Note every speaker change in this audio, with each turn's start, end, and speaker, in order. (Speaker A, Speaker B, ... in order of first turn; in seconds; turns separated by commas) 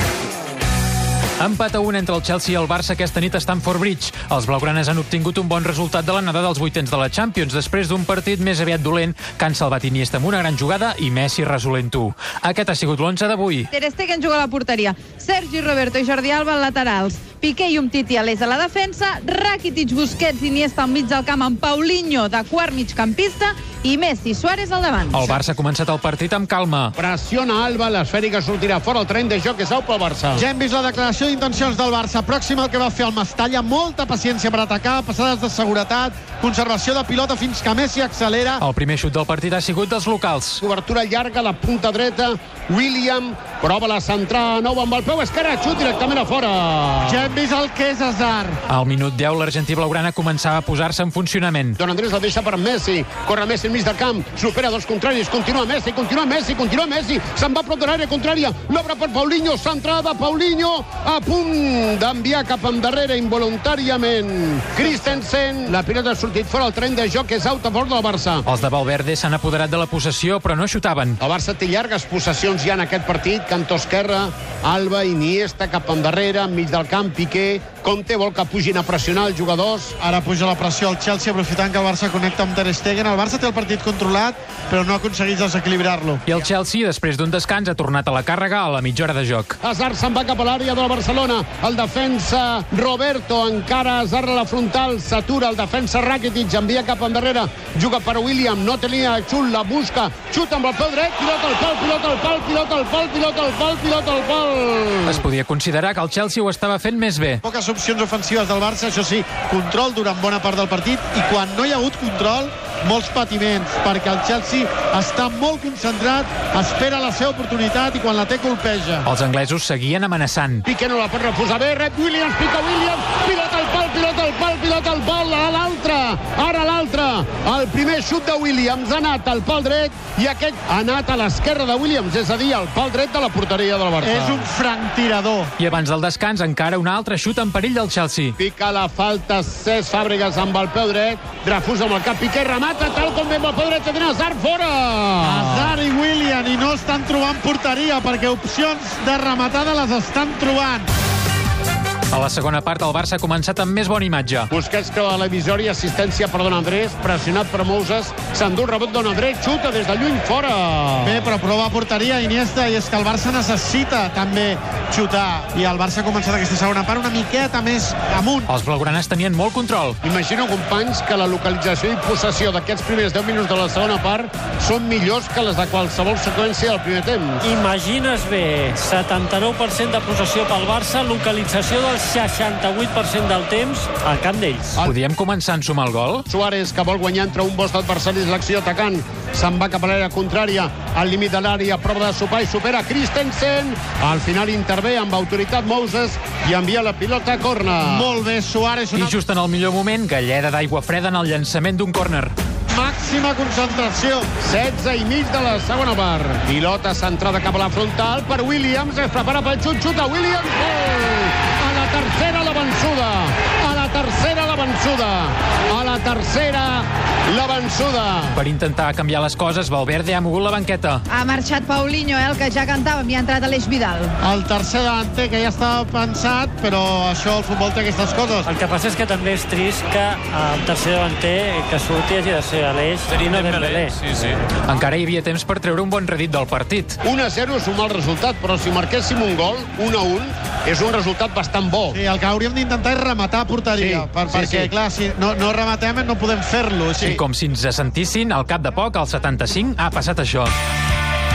Speaker A: 1.4-13.7, Speaker B: 13.7-25.4, Speaker A: 25.1-26.9, Speaker C: 26.9-30.4, Speaker D: 30.3-38.6, Speaker A: 38.6-40.6, Speaker C: 40.6-47.4, Speaker D: 47.0-48.6, Speaker A: 48.7-51.8, Speaker C: 51.8-68.4, Speaker D: 64.8-65.1, Speaker A: 68.5-71.2, Speaker C: 71.2-80.0, Speaker D: 80.0-86.2, Speaker A: 86.2-89.6, Speaker C: 89.6-105.2, Speaker A: 105.0-107.4, Speaker D: 107.4-119.1, Speaker A: 119.0-120.6, Speaker C: 120.7-134.5, Speaker D: 134.0-135.5, Speaker A: 135.6-138.3, Speaker C: 138.4-145.8, Speaker D: 145.2-150.9, Speaker A: 152.1-154.5, Speaker C: 154.5-161.3, Speaker D: 161.0-168.5, Speaker A: 168.5-170.0, Speaker C: 170.0-177.4, Speaker E: 177.7-184.6, Speaker A: 184.8-186.2, Speaker C: 186.3-198.2, Speaker D: 197.8-199.2, Speaker A: 198.9-202.3, Speaker D: 202.7-204.3, Speaker C: 204.4-218.4, Speaker A: 218.3-221.0, Speaker B: 221.1-224.1, Speaker D: 224.2-228.5, Speaker E: 228.5-233.9, Speaker A: 233.2-237.0, Speaker C: 237.0-242.0, Speaker D: 241.9-247.2, Speaker C: 243.8-244.7, Speaker A: 247.1-250.5